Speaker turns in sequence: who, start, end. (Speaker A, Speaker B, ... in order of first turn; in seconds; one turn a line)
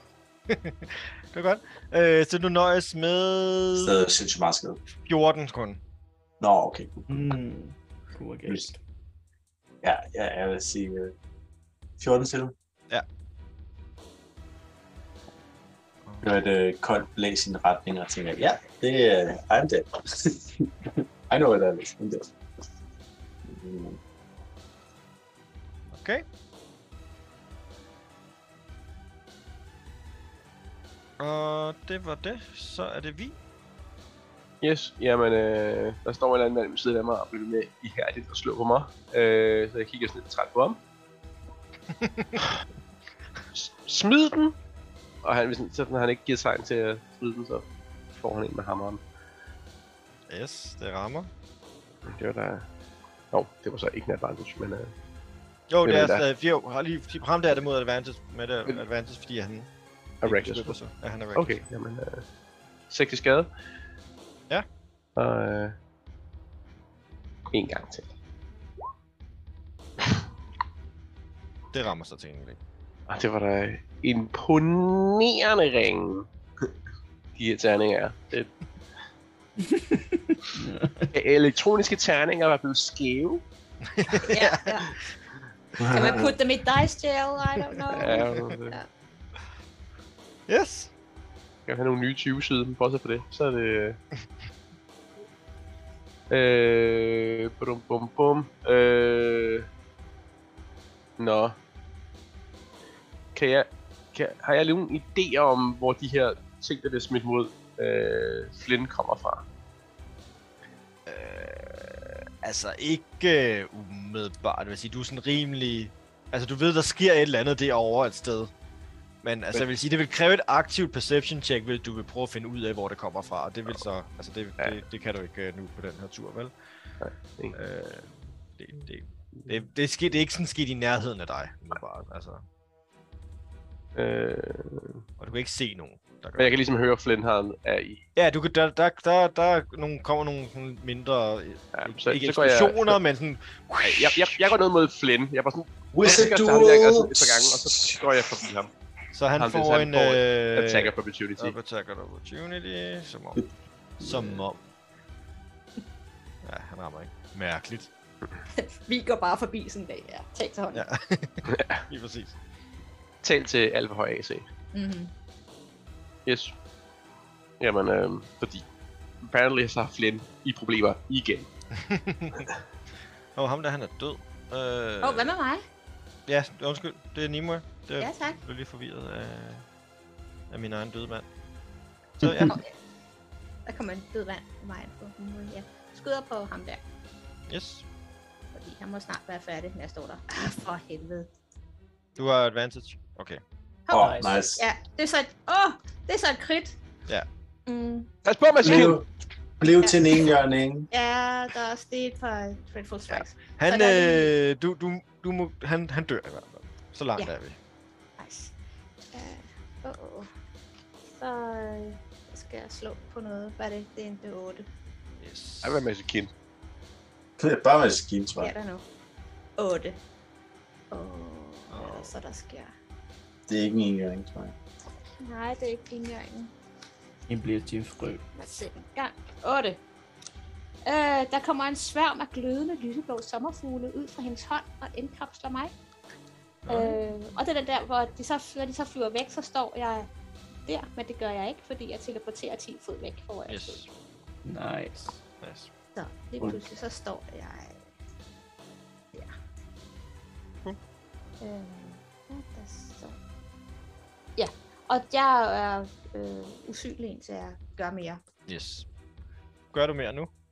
Speaker A: 0.5-3.9
Speaker B: 3.7-4.8
Speaker A: 5.0-5.8
Speaker B: 6.4-7.3
Speaker C: 7.1-8.8
Speaker B: 9.8-11.2
Speaker B: 12.0-12.6
Speaker B: 16.2-22.3
Speaker B: 23.4-24.0
Speaker A: 25.9-26.2
Speaker A: 31.2-33.4
Speaker D: 34.6-40.8
Speaker A: 41.9-42.4
Speaker D: 43.5-44.5
Speaker D: 45.2-49.0
Speaker A: 50.3-51.3
Speaker D: 52.1-52.7
Speaker D: 53.3-54.9
Speaker A: 55.7-59.7
Speaker D: 55.8-56.2
Speaker D: 60.2-60.8
Speaker A: 60.2-61.6
Speaker D: 61.4-62.2
Speaker D: 62.9-63.5
Speaker D: 65.2-65.8
Speaker D: 67.5-68.1
Speaker A: 71.7-72.6
Speaker D: 73.1-76.3
Speaker D: 77.4-78.5
Speaker C: 79.7-81.1
Speaker D: 81.1-83.4
Speaker A: 83.9-85.0
Speaker E: 84.2-85.0
Speaker B: 85.8-86.3
Speaker E: 85.8-88.9
Speaker A: 87.9-88.5
Speaker D: 88.0-88.8
Speaker A: 90.5-90.9
Speaker D: 91.7-94.0
Speaker D: 96.3-99.7
Speaker D: 101.2-101.6
Speaker D: 103.3-109.5
Speaker A: 111.1-118.5
Speaker A: 119.2-126.5
Speaker D: 127.0-127.6
Speaker A: 127.5-132.4
Speaker D: 133.9-135.0
Speaker A: 135.2-136.6
Speaker D: 136.4-138.0
Speaker A: 138.2-144.5
Speaker D: 141.7-143.0
Speaker D: 143.8-148.7
Speaker B: 145.9-148.0
Speaker A: 149.1-153.4
Speaker D: 149.4-151.6
Speaker A: 154.0-154.6
Speaker A: 156.4-157.9
Speaker E: 158.6-160.8
Speaker A: 160.8-162.4
Speaker D: 161.5-161.8
Speaker D: 163.2-164.4
Speaker E: 164.7-165.1
Speaker D: 166.3-166.6
Speaker D: 167.6-168.7
Speaker D: 169.2-171.5
Speaker A: 171.8-172.5
Speaker A: 173.4-175.3
Speaker E: 175.0-175.6
Speaker A: 176.3-179.7
Speaker E: 178.0-178.4
Speaker A: 180.5-181.3
Speaker A: 182.2-182.6
Speaker E: 182.4-182.7
Speaker E: 183.7-186.8
Speaker A: 187.5-187.8
Speaker E: 188.5-191.3
Speaker A: 192.2-193.4
Speaker E: 193.9-196.8
Speaker B: 193.9-194.6
Speaker C: 193.9-194.4
Speaker E: 197.7-198.1
Speaker D: 198.2-199.0
Speaker B: 198.6-199.1
Speaker B: 199.6-200.9
Speaker E: 200.9-204.3
Speaker A: 203.6-207.6
Speaker E: 208.2-208.5
Speaker E: 209.1-210.3
Speaker E: 211.2-214.7
Speaker A: 215.2-215.8
Speaker D: 215.6-216.3
Speaker B: 217.4-218.5
Speaker E: 218.4-218.8
Speaker E: 219.6-220.0
Speaker E: 220.9-222.7
Speaker A: 221.7-222.1
Speaker B: 223.5-224.5
Speaker E: 225.2-226.5
Speaker C: 227.3-228.2
Speaker E: 228.3-229.8
Speaker E: 230.8-235.7
Speaker A: 236.7-237.0
Speaker E: 236.7-240.1
Speaker E: 240.7-243.8
Speaker A: 243.5-243.9
Speaker C: 244.4-245.2
Speaker A: 245.4-245.7
Speaker E: 245.9-247.9
Speaker E: 251.4-253.2
Speaker E: 254.4-258.2
Speaker A: 258.5-258.9
Speaker A: 259.7-260.3